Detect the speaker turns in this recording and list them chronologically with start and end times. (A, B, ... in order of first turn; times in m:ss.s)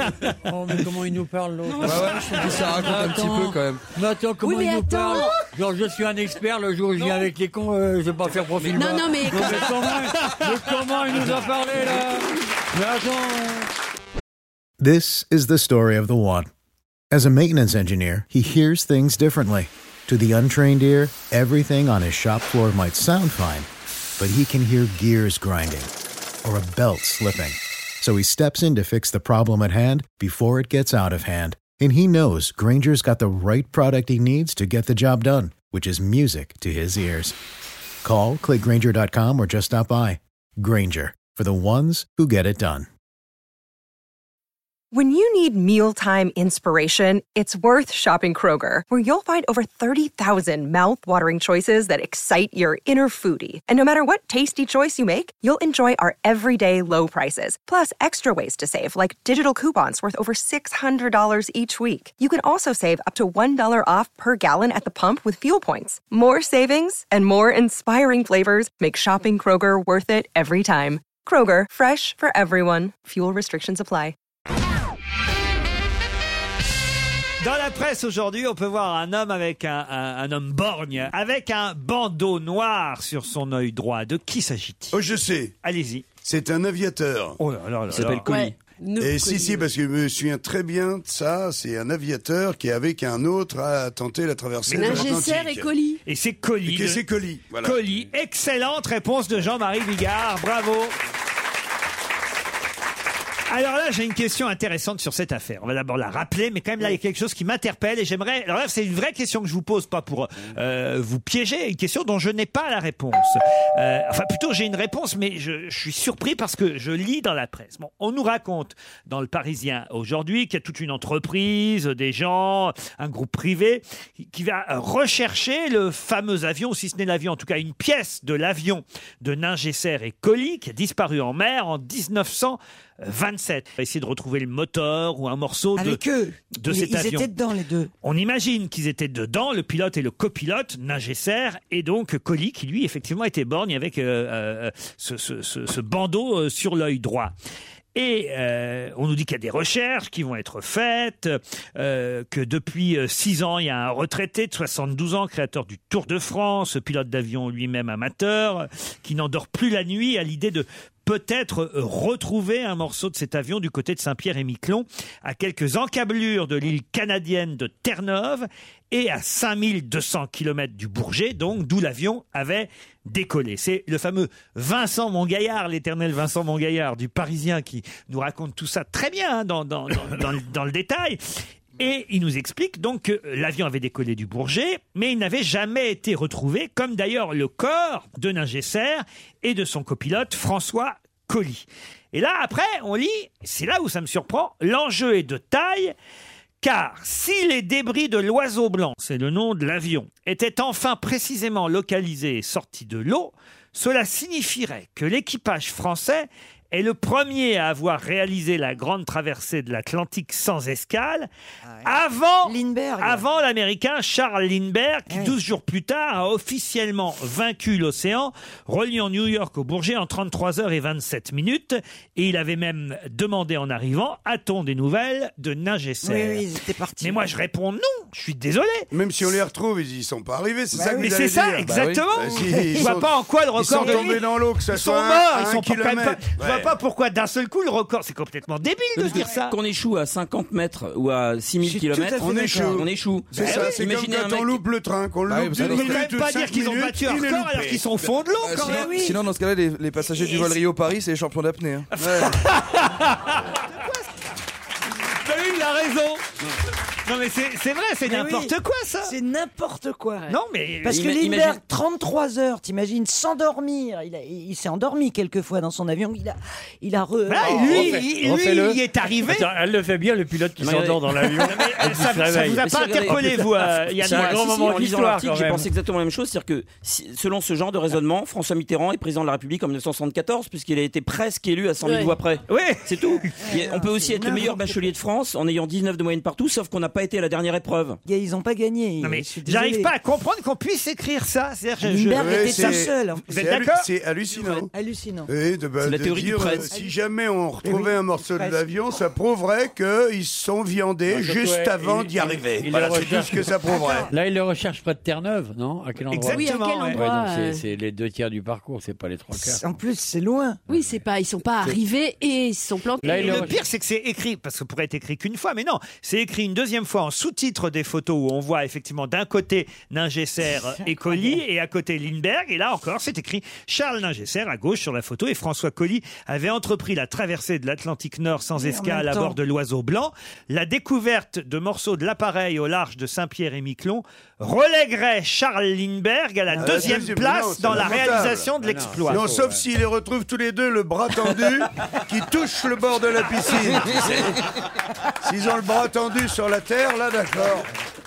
0:00.3-0:13.7 A
0:01.8-0:03.9 B
0:04.4-0:05.4 C
0:08.6-0:09.8 C
0:14.8-0:16.5 D
0:17.1-0:25.9 D
0:26.4-0:37.3 D
0:38.0-0:42.9 D
0:44.9-1:14.1 E
1:17.4-1:25.0 F
1:24.9-1:25.5 G
1:25.6-1:26.1 F
1:26.2-1:27.4 G
1:27.4-1:28.4 F
1:27.9-1:28.5 H
1:28.2-1:29.7 C
1:29.0-1:35.7 G
1:34.7-1:35.2 F
1:34.7-1:36.0 C
1:36.0-1:37.0 F
1:36.6-1:37.8 G
1:37.6-1:41.0 F
1:43.5-2:16.0 F
2:15.8-2:17.9 I
2:16.5-2:17.3 F
2:18.0-2:27.3 F
2:27.9-3:01.2 F
3:01.8-3:15.9 F
3:16.6-3:31.3 F
3:31.6-3:31.9 I
3:31.8-3:46.5 F
3:32.4-3:33.2 I
3:35.1-3:35.4 I
3:46.0-3:47.2 I
3:47.0-3:48.9 F
3:48.9-3:56.7 G
3:50.7-3:51.1 I
3:50.9-3:59.5 F
3:51.6-3:52.1 B
3:52.5-3:53.0 I
3:53.7-3:54.2 I
3:59.0-4:04.6 H
4:01.6-4:02.8 I
4:02.2-4:07.8 G
4:03.4-4:03.8 F
4:05.3-4:06.1 B
4:05.6-4:08.9 F
4:08.4-4:11.9 B
4:08.6-4:09.2 I
4:12.0-4:14.0 F
4:12.0-4:12.4 G
4:15.2-4:16.2 F
4:17.0-4:19.1 F
4:18.0-4:20.3 I
4:20.3-4:21.0 F
4:20.8-4:28.1 I
4:20.9-4:21.6 H
4:27.3-4:29.5 F
4:27.4-4:35.7 A
4:30.6-4:31.4 H
4:31.4-4:34.7 F
4:32.6-4:48.0 H
4:41.8-4:42.2 C
4:42.5-4:43.3 F
4:43.4-4:44.6 I
4:48.0-4:49.9 I
4:49.0-4:53.8 F
4:51.8-4:53.4 I
4:51.9-4:54.7 G
4:54.6-4:55.3 I
4:55.3-5:04.1 G
4:55.8-4:56.7 H
4:57.6-4:58.6 I
5:01.1-5:09.6 A
5:03.6-5:04.1 I
5:06.1-5:07.0 F
5:06.3-5:07.6 C
5:09.3-5:10.6 I
5:10.7-5:13.6 C
5:10.7-5:11.0 A
5:13.0-5:13.6 A
5:13.2-5:39.3 F
5:28.6-5:29.4 I
5:36.5-5:37.1 I
5:36.6-5:38.5 G
5:37.7-5:39.6 A
5:39.1-5:44.4 G
5:45.2-5:47.7 G